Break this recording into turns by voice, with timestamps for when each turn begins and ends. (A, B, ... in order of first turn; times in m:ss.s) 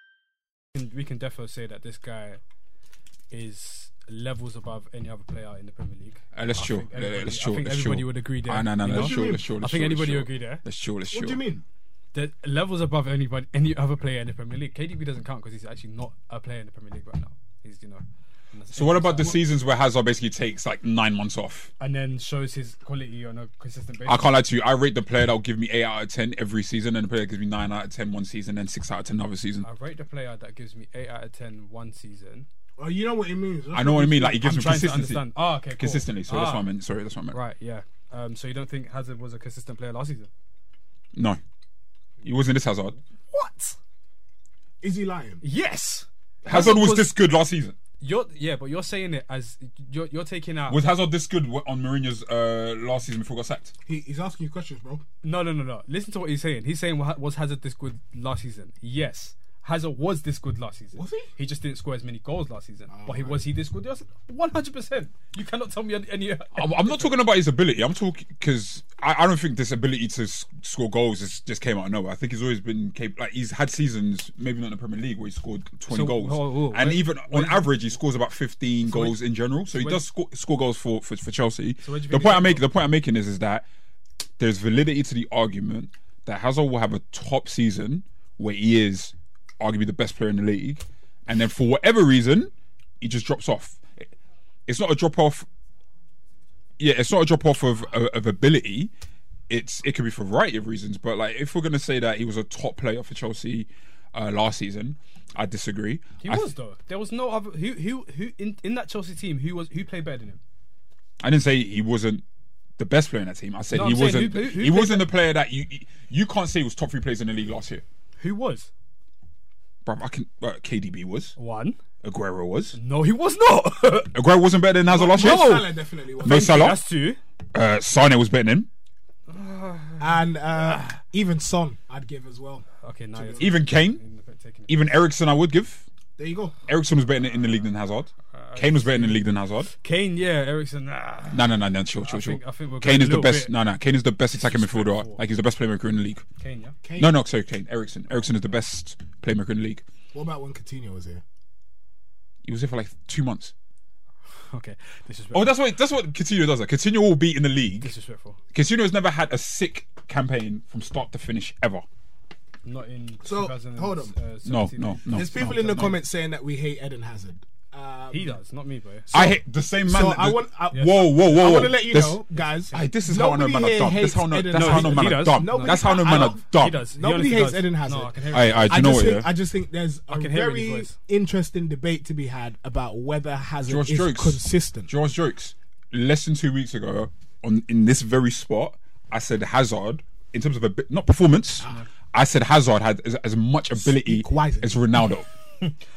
0:00.7-0:02.4 A
0:03.3-0:10.6 A
0:06.3-0:11.4 B
0:08.8-0:09.5 C
0:11.1-0:11.6 C
0:12.1-0:19.5 A
0:18.7-0:21.7 B
0:21.8-0:24.4 A
0:24.0-0:29.7 B
0:29.6-0:32.5 A
0:32.8-0:34.6 C
0:33.7-0:37.4 B
0:34.4-0:36.7 A
0:37.3-0:40.3 A
0:41.1-0:41.4 B
0:42.2-0:43.0 B
0:43.3-0:43.6 A
0:44.8-0:45.4 C
0:45.4-0:47.1 A
0:46.4-0:47.8 B
0:48.0-0:50.8 A
0:50.7-0:53.7 B
0:53.8-0:55.0 C
0:55.2-1:07.1 A
1:00.9-1:01.3 C
1:02.9-1:03.5 C
1:06.6-1:23.7 B
1:15.9-1:17.8 A
1:18.8-1:20.0 A
1:21.8-1:22.8 A
1:24.4-1:34.1 B
1:34.7-1:35.5 B
1:36.8-1:38.9 B
1:39.5-1:46.5 B
1:46.2-1:50.4 A
1:51.2-1:52.2 B
1:52.8-1:57.8 B
1:53.7-1:55.1 A
1:58.2-1:58.7 A
1:59.8-2:01.4 B
2:01.4-2:01.8 A
2:02.0-2:02.8 B
2:02.7-2:04.1 A
2:04.1-2:05.7 B
2:04.9-2:06.8 C
2:05.0-2:05.7 A
2:06.2-2:07.2 A
2:06.2-2:06.8 B
2:07.5-2:08.7 B
2:09.3-2:10.9 A
2:10.0-2:13.6 C
2:12.8-2:14.9 A
2:13.4-2:14.0 B
2:14.7-2:15.9 B
2:16.2-2:16.6 C
2:16.7-2:19.7 B
2:18.3-2:21.5 A
2:21.3-2:26.2 B
2:22.0-2:23.6 A
2:24.3-2:25.2 A
2:26.4-2:26.8 A
2:26.8-2:27.2 C
2:27.0-2:29.8 B
2:30.1-2:31.2 C
2:32.4-2:33.5 B
2:34.4-2:35.6 A
2:35.3-2:37.9 B
2:37.8-2:38.4 A
2:38.5-2:41.8 B
2:42.6-2:45.3 A
2:43.2-2:44.2 C
2:44.4-2:46.0 B
2:45.1-2:48.4 C
2:48.1-2:49.2 A
2:49.1-2:56.8 B
2:49.1-3:04.9 C
2:54.5-2:59.2 A
2:58.3-2:59.3 B
3:00.1-3:01.0 A
3:03.7-3:15.3 B
3:13.8-3:14.8 C